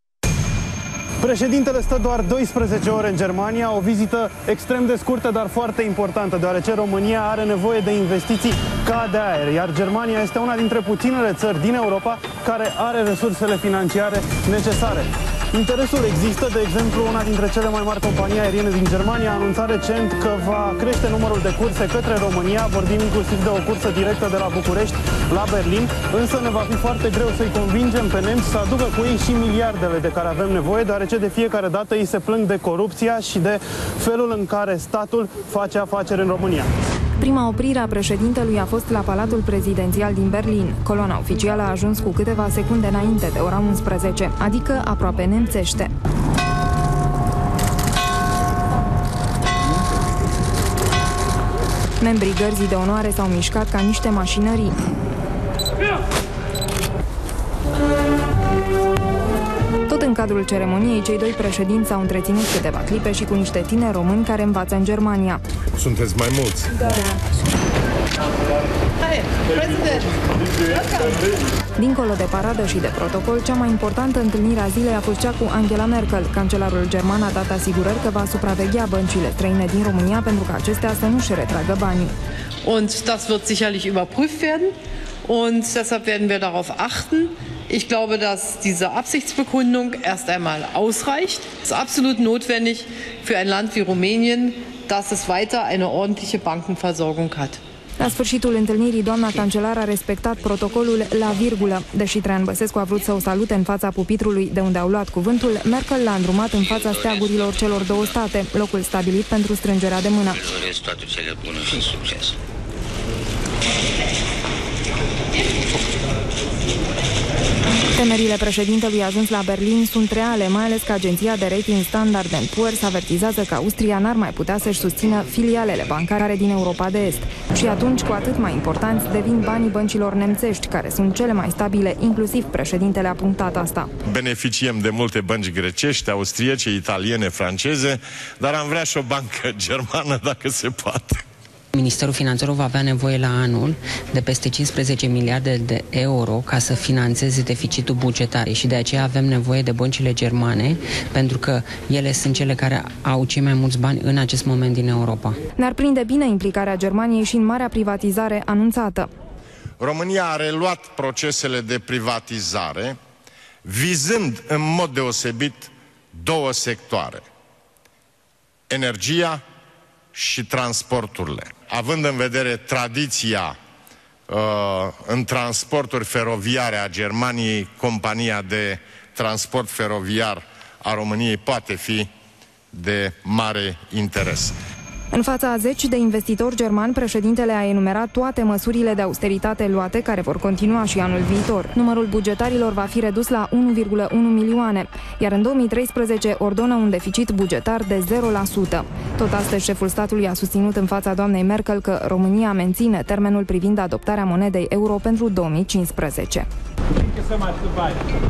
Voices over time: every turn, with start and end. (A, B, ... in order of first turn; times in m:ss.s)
0:01.2-0:36.7 A
0:37.2-0:45.9 B
0:52.0-0:54.8 B
0:59.9-1:05.4 B
1:05.8-1:06.8 C
1:06.9-1:07.2 B
1:09.0-1:11.3 D
1:11.8-1:22.1 B
1:22.6-1:37.6 D
1:38.0-1:50.4 B
1:46.8-1:47.2 E
1:50.5-1:52.4 E
1:57.9-2:13.9 B
2:14.0-2:21.2 C
2:21.8-2:35.4 F
2:35.6-2:39.1 B
2:39.8-2:43.0 C
2:43.6-2:47.2 C
2:48.7-2:49.4 C
2:50.1-2:53.6 C
2:54.3-3:02.1 C
3:02.7-3:04.6 C
3:05.1-3:26.5 B